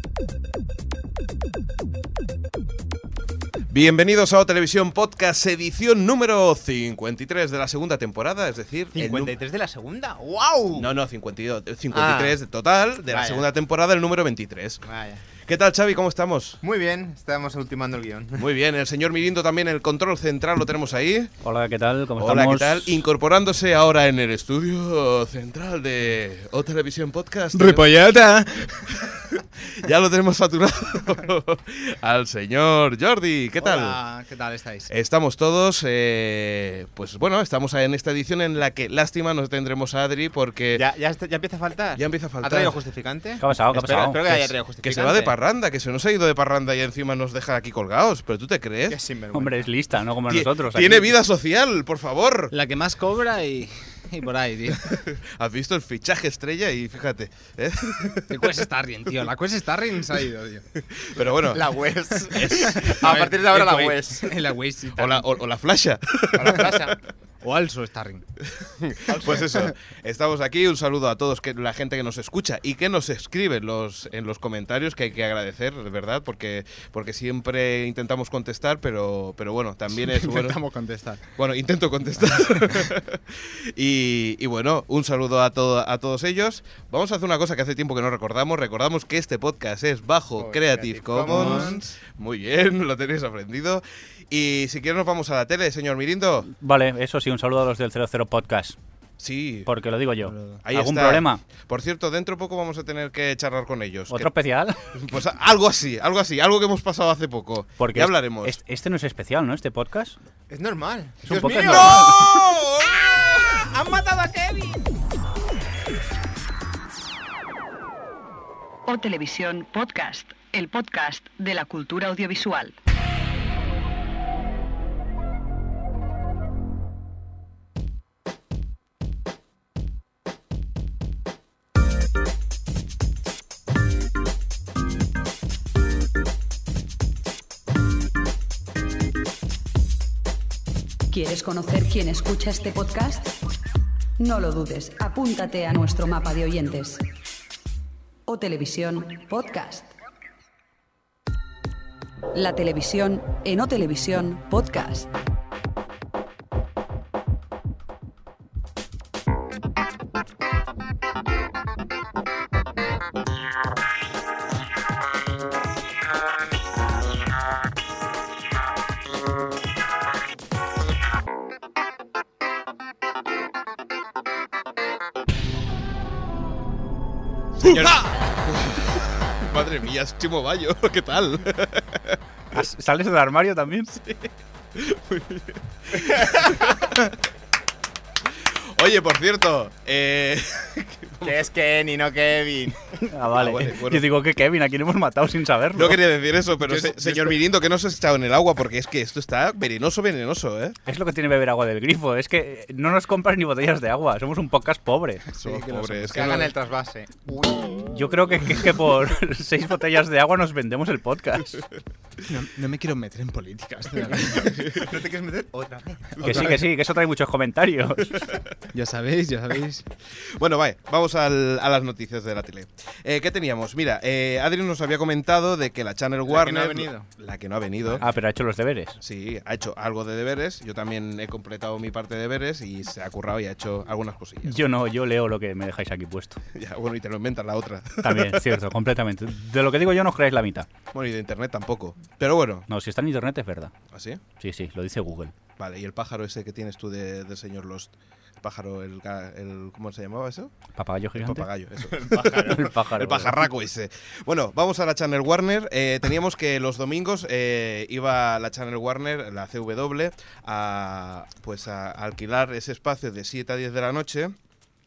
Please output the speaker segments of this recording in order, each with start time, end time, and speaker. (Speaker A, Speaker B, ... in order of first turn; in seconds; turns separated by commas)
Speaker A: 3.7-9.3, Speaker B: 8.9-10.9, Speaker A: 10.7-14.8, Speaker B: 11.9-12.3, Speaker B: 13.1-13.4, Speaker B: 14.8-15.2, Speaker A: 15.4-16.6, Speaker B: 16.6-18.5, Speaker A: 18.4-21.3, Speaker C: 21.4-23.0, Speaker A: 22.2-27.9, Speaker D: 27.5-29.2, Speaker A: 29.1-34.0, Speaker D: 33.6-34.9, Speaker A: 34.9-40.8, Speaker B: 40.7-45.3, Speaker A: 42.0-42.8, Speaker C: 43.4-44.5, Speaker A: 44.8-49.0, Speaker B: 48.9-49.7, Speaker C: 49.3-51.1, Speaker A: 50.3-52.5, Speaker D: 52.5-55.0, Speaker A: 54.9-58.5, Speaker D: 58.3-60.6, Speaker A: 60.9-63.3, Speaker B: 61.4-64.3, Speaker D: 62.8-65.2, Speaker A: 65.0-66.9, Speaker B: 66.3-67.0, Speaker D: 67.4-68.2, Speaker A: 68.5-80.6, Speaker B: 69.1-69.4, Speaker D: 80.0-81.3, Speaker A: 81.4-96.5, Speaker B: 90.4-91.8, Speaker D: 91.2-91.9, Speaker C: 96.5-98.8, Speaker A: 99.2-99.7, Speaker C: 99.7-101.4, Speaker D: 100.3-100.6, Speaker A: 100.6-104.3, Speaker C: 104.1-104.8, Speaker A: 104.9-108.6, Speaker C: 107.8-110.2, Speaker B: 110.5-114.9, Speaker C: 111.2-112.2, Speaker A: 111.6-113.0, Speaker E: 118.9-122.8, Speaker E: 141.1-143.3, Speaker E: 144.2-147.0, Speaker E: 148.3-149.9, Speaker E: 152.3-155.1, Speaker A: 177.6-182.2, Speaker C: 182.5-184.1, Speaker A: 184.7-187.1, Speaker A: 188.5-191.5, Speaker B: 191.2-193.0, Speaker C: 193.0-196.0, Speaker A: 193.3-194.1, Speaker A: 195.8-200.8, Speaker D: 196.6-197.4, Speaker C: 200.9-205.2, Speaker D: 205.3-206.5, Speaker A: 205.4-206.5, Speaker B: 206.1-207.9, Speaker C: 207.9-211.6, Speaker D: 212.2-214.6, Speaker A: 214.4-214.8, Speaker B: 214.6-216.3, Speaker C: 216.2-218.4, Speaker D: 218.7-219.8, Speaker A: 220.2-228.0, Speaker B: 226.3-227.1, Speaker C: 228.0-229.0, Speaker A: 229.0-234.6, Speaker C: 234.4-236.4, Speaker A: 236.5-238.5, Speaker C: 238.0-240.7, Speaker A: 240.9-242.7, Speaker C: 242.7-243.7, Speaker A: 243.9-244.2, Speaker C: 244.4-245.3, Speaker A: 245.6-250.5, Speaker C: 250.8-251.4, Speaker A: 251.2-264.3, Speaker B: 251.9-252.7, Speaker C: 252.5-253.4